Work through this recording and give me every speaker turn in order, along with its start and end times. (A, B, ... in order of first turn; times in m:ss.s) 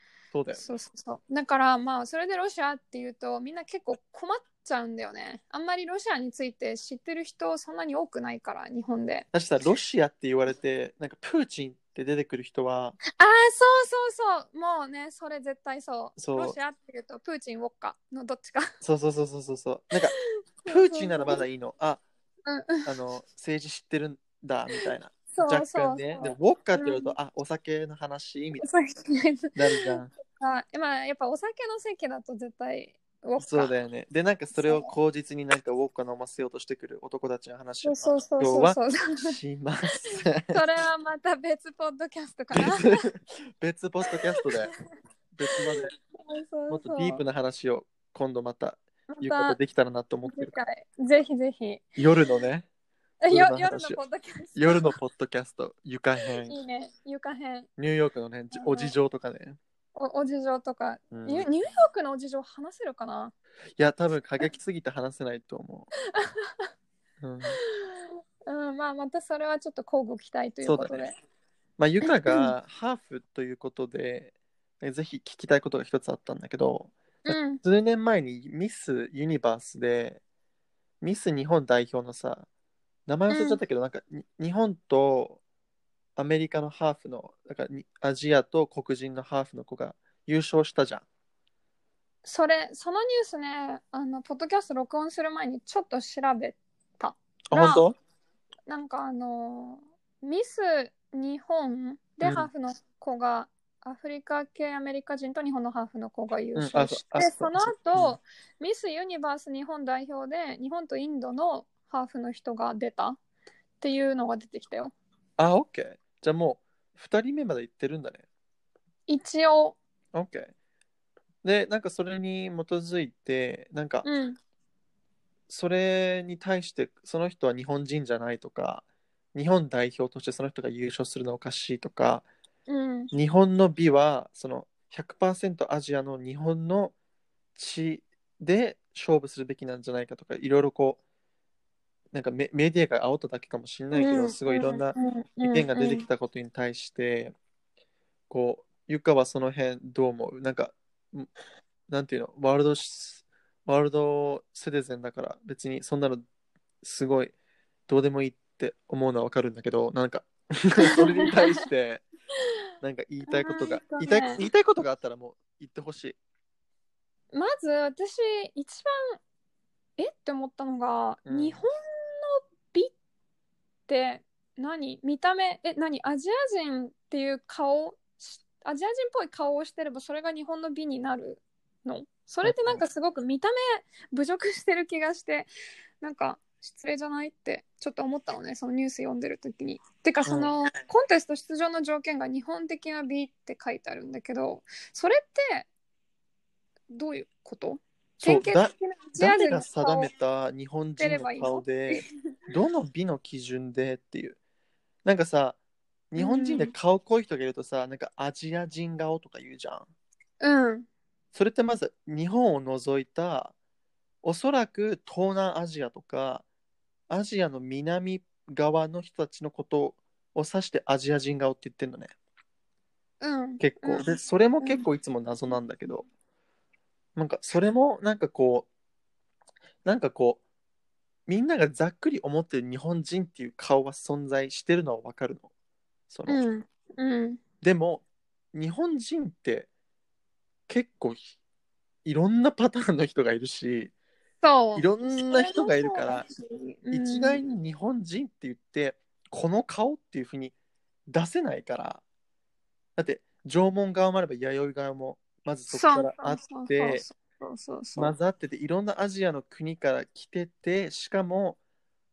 0:00.3-0:00.7 A
0:00.5-0:09.2 B
0:09.3-0:13.0 A
0:13.2-0:18.7 B
0:16.2-0:16.6 A
0:18.8-0:20.1 A
0:20.6-0:21.4 B
0:20.6-0:22.0 A
0:22.4-0:22.8 B
0:22.8-0:28.7 A
0:24.8-0:27.1 B
0:28.6-0:33.7 B
0:29.6-0:30.1 A
0:33.4-0:40.6 A
0:34.5-0:34.9 B
0:37.8-0:39.4 B
0:40.5-0:43.0 B
0:42.5-0:44.7 A
0:44.1-0:44.5 B
0:45.3-0:45.9 A
0:46.2-0:47.2 B
0:46.7-0:50.6 A
0:49.1-0:49.6 B
0:50.2-0:52.0 B
0:52.0-0:52.7 A
0:53.2-0:54.9 B
0:53.3-0:54.0 A
0:54.6-0:56.6 A
0:56.4-0:57.7 B
0:57.8-0:59.6 A
0:58.5-0:58.9 B
1:00.0-1:03.3 B
1:01.1-1:01.5 A
1:03.8-1:05.9 A
1:06.2-1:06.7 B
1:07.2-1:07.6 A
1:07.8-1:11.2 B
1:10.6-1:11.1 A
1:11.8-1:20.2 A
1:12.0-1:12.5 B
1:17.2-1:17.6 B
1:21.0-1:22.5 A
1:23.1-1:25.4 A
1:23.3-1:23.6 B
1:26.2-1:31.0 A
1:32.2-1:37.8 B
1:37.5-1:38.0 A
1:38.7-1:53.2 B
1:42.2-1:42.5 A
1:46.5-1:48.2 A
1:53.8-1:54.9 B
1:55.4-1:58.2 A
1:59.1-1:59.8 B
2:00.1-2:00.5 A
2:01.4-2:04.1 A
2:04.0-2:04.4 B
2:05.5-2:12.2 A
2:12.7-2:13.1 B
2:13.1-2:16.9 A
2:17.6-2:21.0 A
2:22.1-2:27.3 A
2:23.9-2:26.0 B
2:28.3-2:31.3 A
2:31.9-2:36.2 A
2:36.8-2:37.3 A
2:37.9-2:42.0 A
2:40.9-2:41.6 B
2:42.8-2:46.2 A
2:43.3-2:44.4 B
2:47.3-2:49.2 B
2:50.0-2:52.9 B
2:51.2-2:51.6 A
2:53.9-3:05.5 B
3:02.4-3:02.8 A
3:06.0-3:15.7 B
3:10.2-3:10.5 A
3:16.9-3:20.1 B
3:18.2-3:24.4 A
3:21.0-3:22.1 B
3:25.0-3:25.6 A
3:26.1-3:29.9 A
3:26.2-3:26.7 B
3:30.4-3:30.9 B
3:31.3-3:33.5 A
3:34.2-3:36.4 A
3:37.1-3:42.1 A
3:43.2-3:44.1 B
3:43.6-3:46.1 A
3:44.6-3:44.8 B
3:47.2-3:48.7 A
3:49.8-3:50.4 A
3:51.3-3:55.5 A
3:56.1-3:56.4 A
3:56.3-3:57.4 B
3:57.6-3:59.7 A
4:00.7-4:01.3 A
4:02.0-4:03.9 A
4:04.4-4:07.5 B
4:04.7-4:06.2 A
4:06.9-4:10.5 A
4:11.1-4:12.0 A
4:13.0-4:17.0 A
4:15.7-4:18.1 B
4:18.0-4:21.6 A